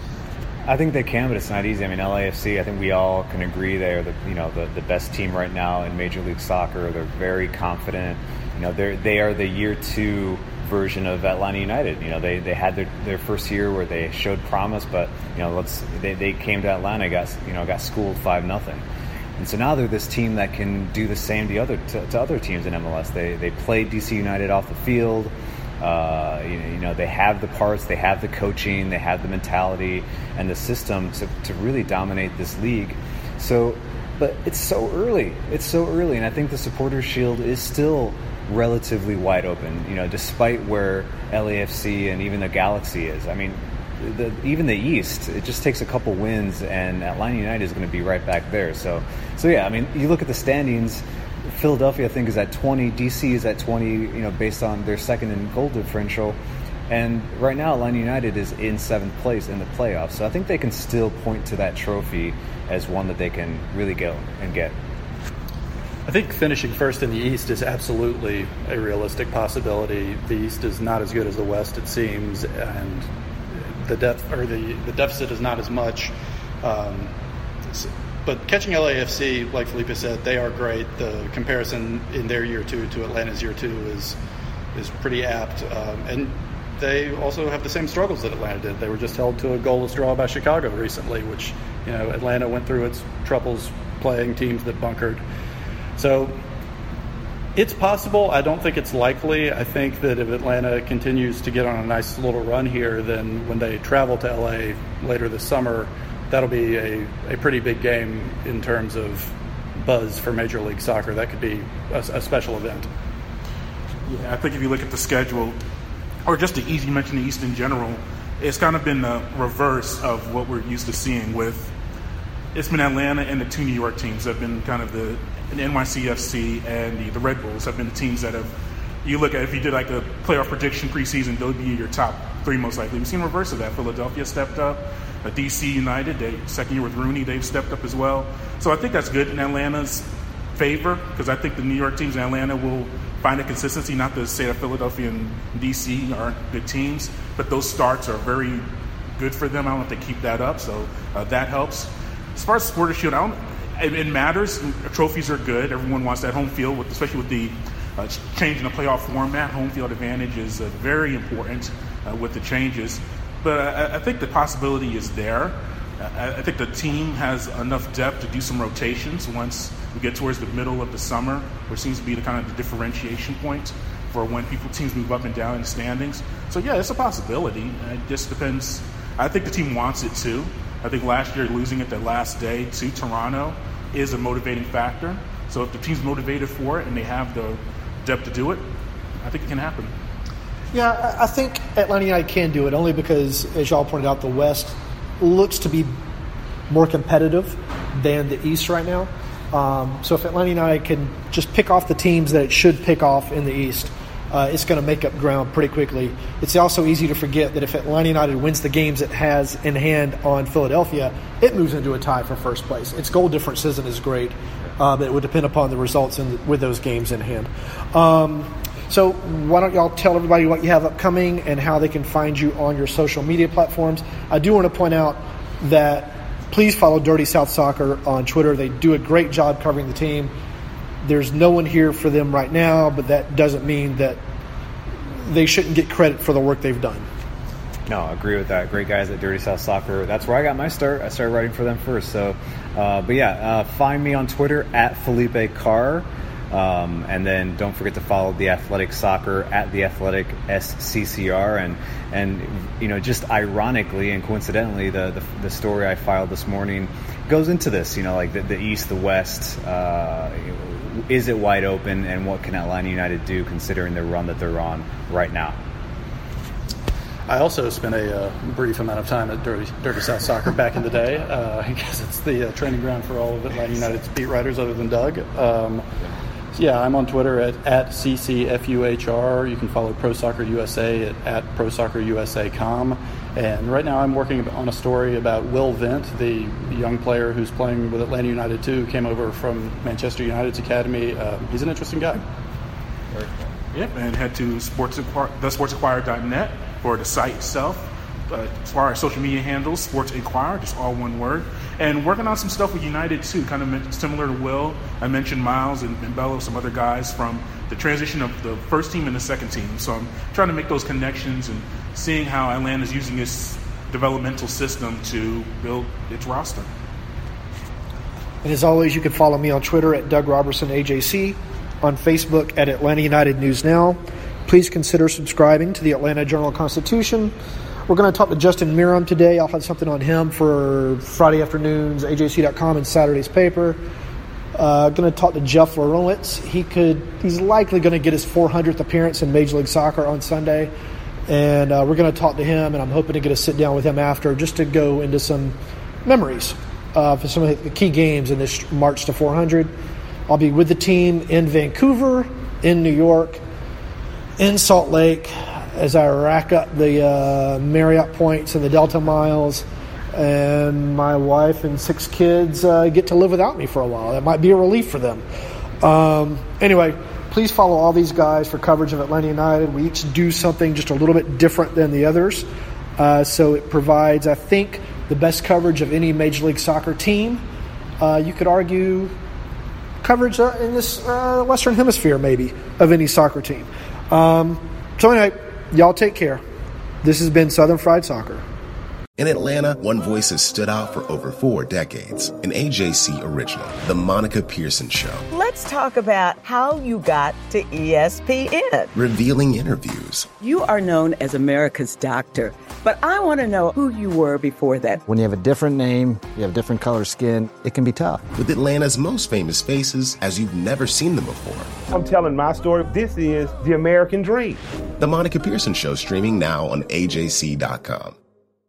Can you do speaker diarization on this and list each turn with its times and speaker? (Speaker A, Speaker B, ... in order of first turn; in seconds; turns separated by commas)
Speaker A: 0.7-18.8, Speaker A: 19.4-56.4, Speaker A: 56.9-64.8, Speaker B: 66.1-73.1, Speaker B: 73.8-77.1, Speaker B: 77.7-84.2, Speaker B: 84.8-95.2, Speaker B: 96.0-96.4, Speaker B: 97.6-112.9, Speaker C: 114.1-115.6, Speaker C: 116.2-121.7, Speaker C: 122.5-128.5, Speaker C: 129.0-148.6, Speaker C: 149.2-188.6, Speaker C: 189.2-189.9, Speaker D: 190.7-195.9, Speaker D: 196.7-230.3, Speaker D: 231.0-234.2, Speaker D: 235.2-237.1, Speaker A: 237.9-265.6, Speaker B: 267.3-275.9, Speaker B: 276.5-292.2, Speaker C: 293.7-316.7, Speaker D: 318.4-327.3, Speaker D: 327.9-333.8, Speaker D: 334.6-340.7, Speaker D: 341.3-349.7, Speaker D: 350.3-353.4, Speaker D: 354.4-365.2, Speaker D: 365.8-372.5, Speaker D: 373.0-377.4, Speaker D: 378.0-379.1, Speaker D: 380.0-386.4, Speaker D: 387.0-388.4, Speaker E: 389.2-395.2, Speaker F: 395.3-398.9, Speaker E: 398.9-400.3, Speaker F: 400.4-405.0, Speaker G: 405.1-408.2, Speaker E: 408.4-411.7, Speaker H: 411.9-414.6, Speaker E: 415.0-418.2